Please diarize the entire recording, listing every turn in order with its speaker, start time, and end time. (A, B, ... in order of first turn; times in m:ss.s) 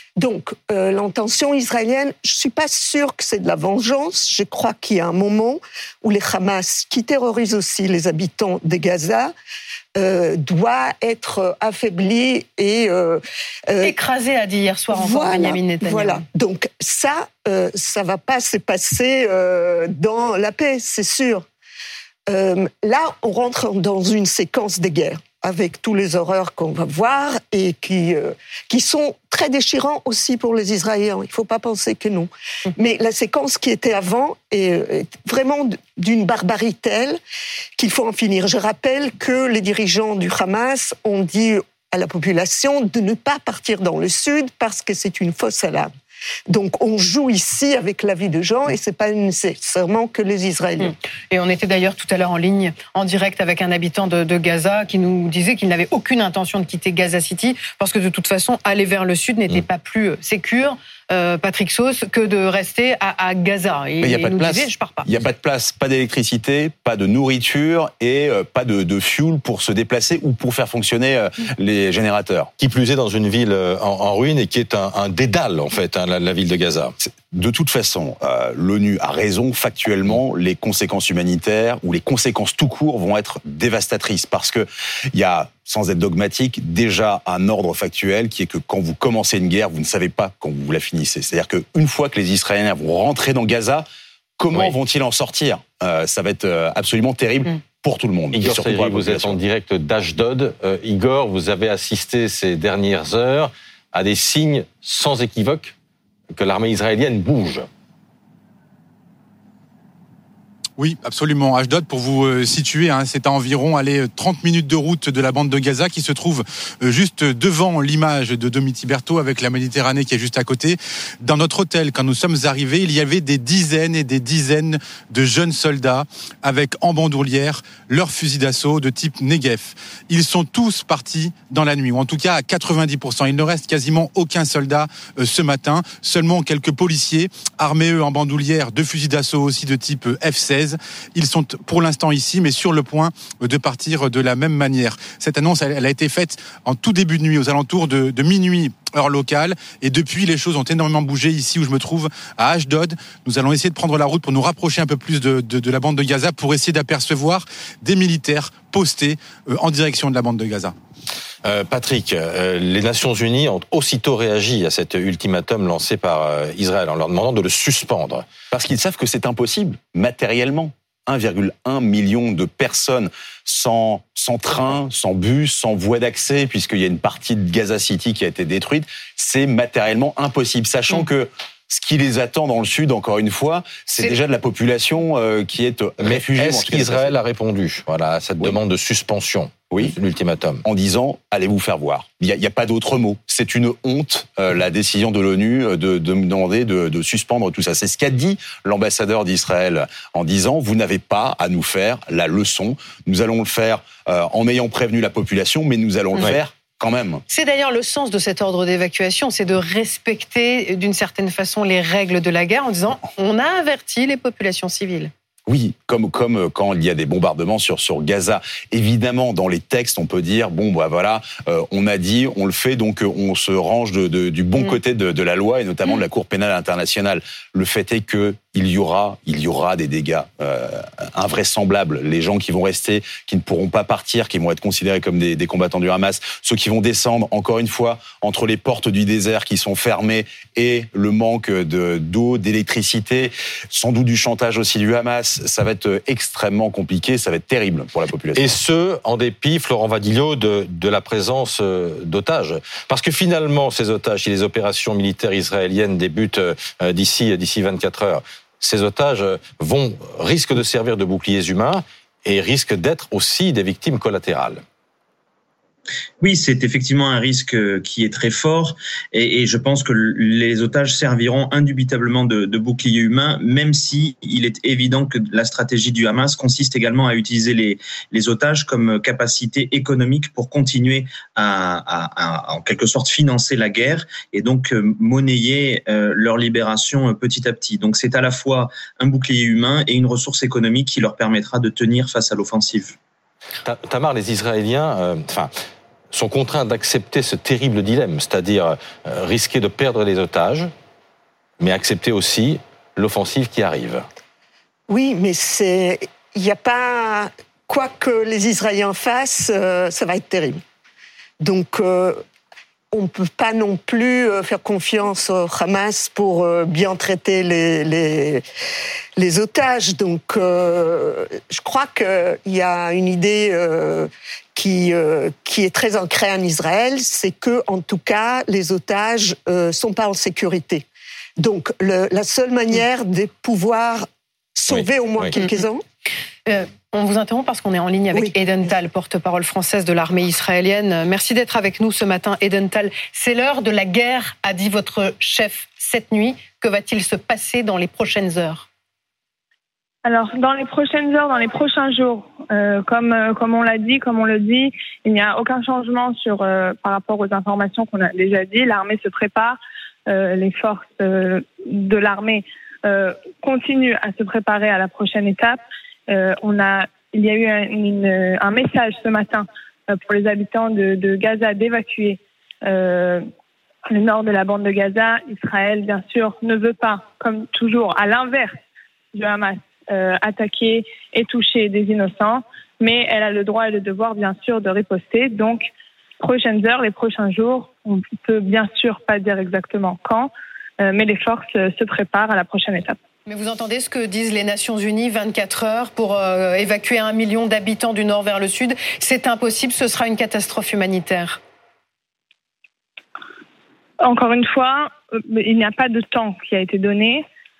0:00.2-0:09.3 A
0:09.9-0:13.9 A
0:13.8-0:16.2 B
0:14.9-0:21.4 A
0:22.3-0:37.2 A
0:37.8-0:45.9 A
0:46.5-0:50.9 A
0:50.8-1:05.1 B
1:04.0-1:12.5 C
1:12.6-1:16.9 D
1:17.0-1:33.8 C
1:34.4-1:39.4 C
1:38.3-1:45.7 D
1:46.3-1:47.7 D
1:50.8-2:40.7 E
2:41.4-2:48.2 D
2:48.5-3:07.2 C
3:06.0-3:10.6 D
3:10.6-3:27.2 C
3:27.3-3:35.1 B
3:35.5-4:08.5 C
4:08.3-4:24.6 D
4:26.2-4:53.0 F
4:53.6-4:55.5 D
4:56.1-5:00.7 D
5:01.6-5:04.0 D
5:04.9-5:10.6 A
5:11.4-5:12.2 A
5:12.9-5:18.4 A
5:19.2-5:30.8 A
5:31.4-5:34.0 A
5:34.6-5:35.8 A
5:34.7-5:35.4 D
5:36.4-5:48.6 B
5:50.0-6:13.2 G
6:13.9-6:18.5 G
6:19.1-6:25.7 G
6:26.2-6:30.3 G
6:30.8-6:33.0 G
6:33.2-6:41.4 B
6:44.0-6:47.2 G